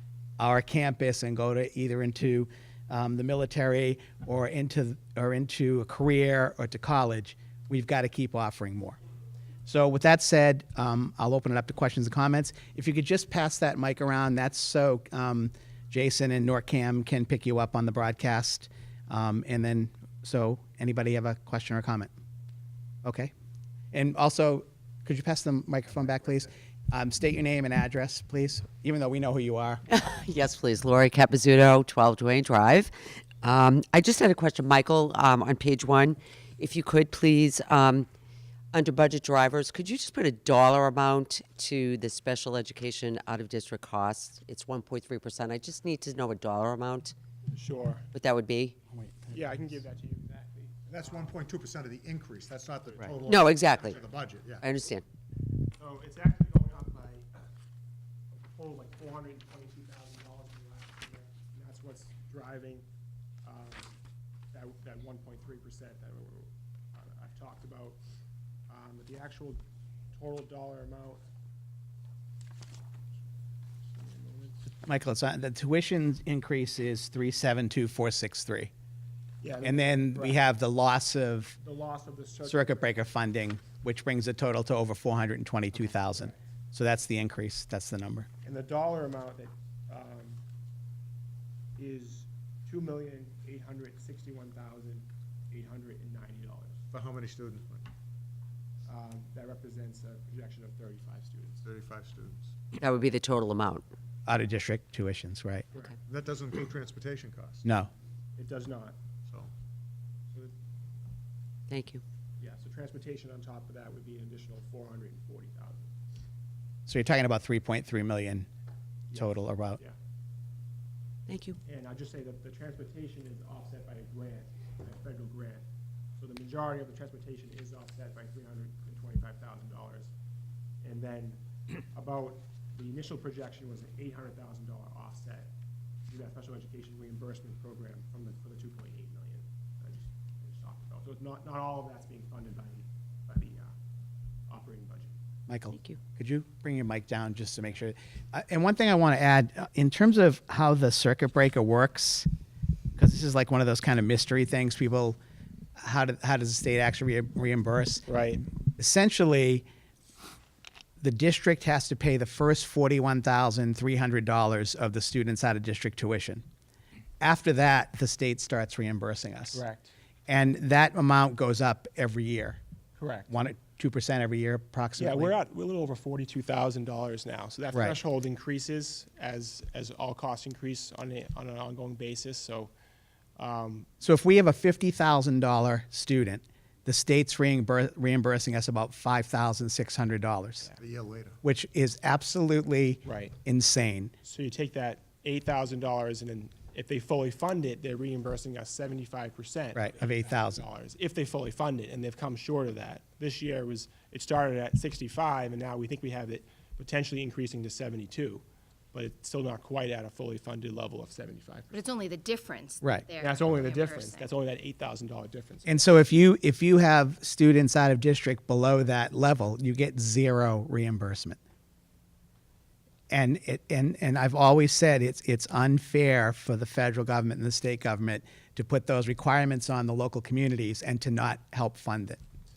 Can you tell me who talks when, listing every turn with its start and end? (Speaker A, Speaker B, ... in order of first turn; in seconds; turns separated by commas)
Speaker A: 0.4-9.0, Speaker A: 9.7-22.1, Speaker A: 23.0-23.3, Speaker A: 23.9-29.9, Speaker B: 29.9-38.1, Speaker B: 38.7-47.1, Speaker C: 47.5-48.1, Speaker B: 48.1-48.8, Speaker A: 48.9-49.7, Speaker C: 49.3-51.4, Speaker D: 50.9-54.7, Speaker B: 53.2-54.0, Speaker B: 54.6-55.0, Speaker C: 55.8-57.4, Speaker C: 58.3-62.9, Speaker C: 63.4-63.9, Speaker C: 64.5-68.0, Speaker C: 68.7-69.6, Speaker C: 70.1-71.2, Speaker C: 73.9-74.6, Speaker A: 74.8-78.7, Speaker C: 79.4-80.4, Speaker A: 79.6-81.6, Speaker C: 81.6-83.0, Speaker A: 82.5-88.3, Speaker C: 88.4-90.4, Speaker C: 91.8-96.8, Speaker D: 96.9-97.9, Speaker C: 98.8-101.7, Speaker D: 101.6-102.5, Speaker B: 102.8-103.9, Speaker A: 104.3-105.7, Speaker D: 106.0-107.7, Speaker C: 108.4-109.0, Speaker D: 109.3-109.5, Speaker B: 111.7-112.0, Speaker C: 112.4-115.9, Speaker A: 116.9-118.5, Speaker C: 119.1-120.0, Speaker A: 119.1-119.8, Speaker B: 121.3-121.6, Speaker C: 121.7-125.7, Speaker C: 126.2-130.1, Speaker C: 130.8-135.5, Speaker C: 136.1-143.7, Speaker C: 144.5-145.2, Speaker A: 145.5-152.3, Speaker A: 152.9-155.2, Speaker A: 155.8-158.1, Speaker C: 158.1-158.4, Speaker A: 158.8-159.7, Speaker A: 161.0-166.4, Speaker A: 167.2-169.6, Speaker C: 169.5-169.9, Speaker A: 170.3-172.6, Speaker C: 173.0-173.3, Speaker A: 173.3-175.4, Speaker C: 175.0-182.7, Speaker A: 177.7-178.0, Speaker C: 183.4-183.9, Speaker A: 184.0-190.7, Speaker D: 190.8-191.4, Speaker A: 191.4-194.1, Speaker C: 193.0-193.4, Speaker C: 194.2-211.9, Speaker A: 199.8-200.6, Speaker E: 211.7-214.2, Speaker C: 213.1-215.9, Speaker A: 215.7-221.4, Speaker A: 223.1-232.2